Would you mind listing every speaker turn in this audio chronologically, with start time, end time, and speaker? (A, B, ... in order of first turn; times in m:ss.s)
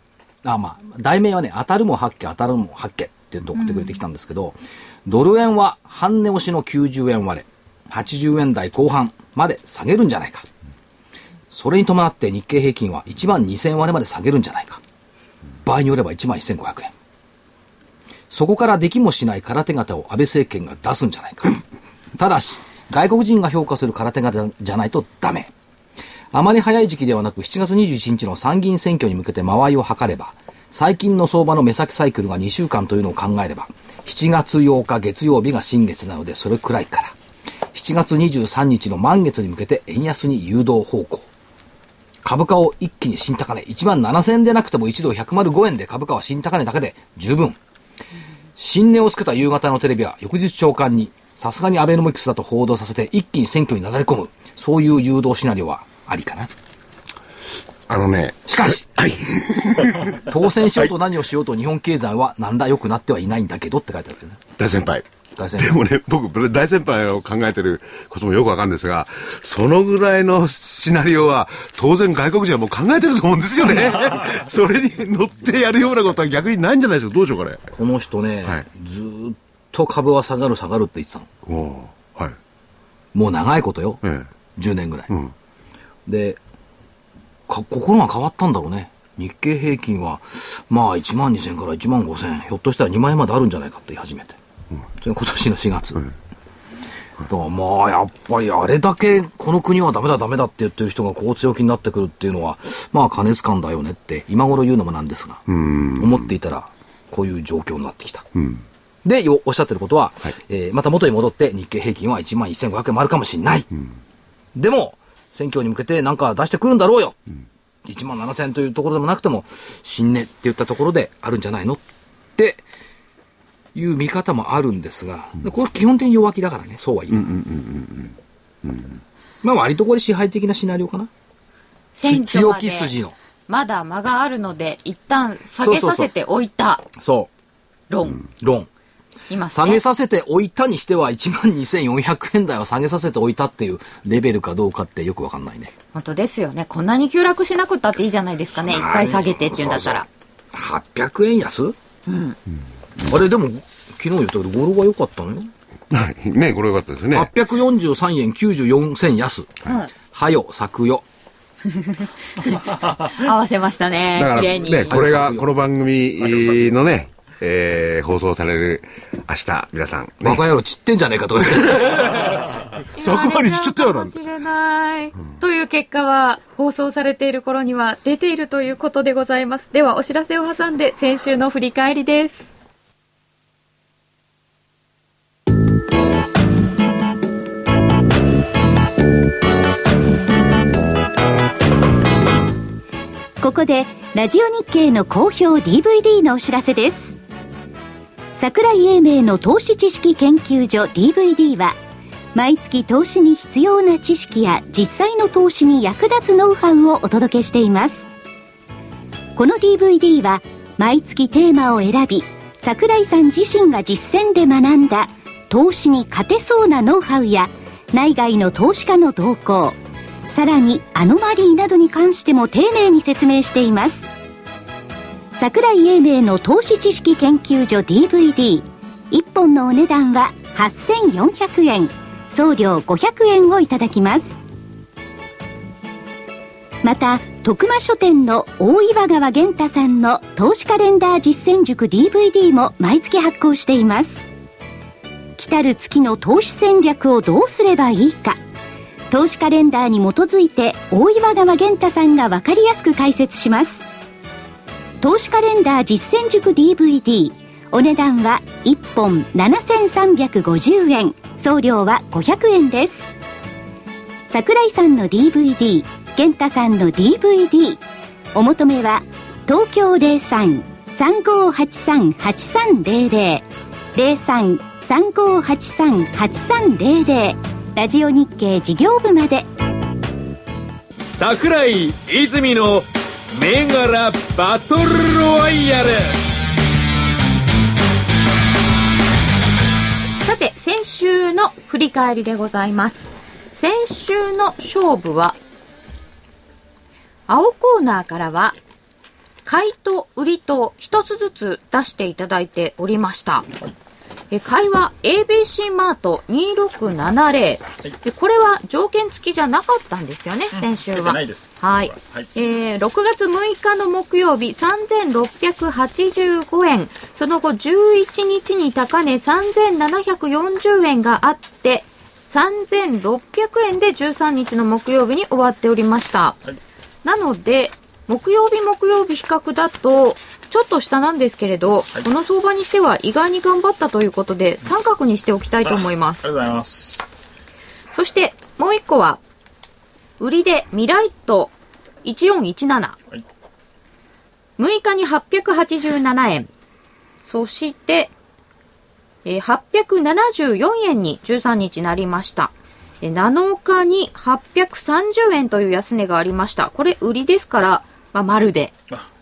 0:00.4-0:10.5 A
0:03.6-0:04.0 B
0:11.5-0:14.8 A
0:15.6-0:16.9 A
0:18.3-0:21.6 A
0:22.2-0:25.5 A
0:26.3-0:37.2 A
0:37.7-0:41.3 A
0:42.2-0:47.6 A
0:48.6-0:56.5 A
0:57.9-1:00.3 C
0:58.5-0:58.8 A
1:00.2-1:04.4 A
1:04.6-1:17.7 C
1:05.4-1:05.8 A
1:17.7-1:21.3 A
1:21.5-1:22.4 C
1:23.1-1:24.0 A
1:24.0-1:24.3 C
1:24.6-1:25.1 A
1:26.1-1:26.4 A
1:27.5-1:34.4 A
1:35.0-1:36.0 A
1:37.3-1:45.4 A
1:45.5-1:46.3 C
1:46.0-1:48.2 A
1:48.4-1:48.6 C
1:49.0-1:53.7 A
1:54.6-1:57.2 A
1:57.9-2:01.8 A
2:02.4-2:02.6 A
2:03.7-2:07.3 A
2:07.1-2:09.0 C
2:09.4-2:11.1 A
2:12.0-2:12.9 B
2:12.0-2:13.2 A
2:13.5-2:16.9 B
2:15.6-2:16.1 A
2:17.0-2:17.3 A
2:17.9-2:18.2 B
2:18.2-2:18.7 A
2:19.3-2:19.8 B
2:19.5-2:25.7 A
2:25.9-2:30.1 B
2:28.6-2:31.8 A
2:32.1-2:32.4 B
2:33.1-2:35.5 A
2:35.9-2:37.3 C
2:37.1-2:41.0 A
2:41.7-2:45.0 B
2:44.2-2:50.4 C
2:44.5-2:45.5 A
2:46.2-2:46.7 D
2:50.2-2:52.2 A
2:51.6-2:54.2 C
2:53.0-3:02.5 B
3:13.4-3:17.2 E
3:18.4-3:21.8 E
3:22.3-3:28.0 E
3:29.4-3:39.8 E
3:40.3-3:44.1 E
3:45.4-3:54.4 E
3:56.8-4:04.2 E
4:05.4-4:08.4 E
4:09.1-4:13.8 E
4:15.0-4:23.1 E
4:24.3-4:27.8 E
4:28.3-4:39.5 E
4:41.2-4:46.2 F
4:50.2-4:55.4 B
4:57.3-4:58.6 B
4:59.5-5:03.5 B
5:04.3-5:26.4 B
5:10.5-5:12.3 D
5:27.0-5:36.3 B
5:35.6-5:37.0 D
5:37.9-5:39.2 B
5:40.2-5:41.5 B
5:42.0-5:43.0 B
5:44.6-5:46.5 B
5:47.2-5:48.1 B
5:49.2-5:58.7 B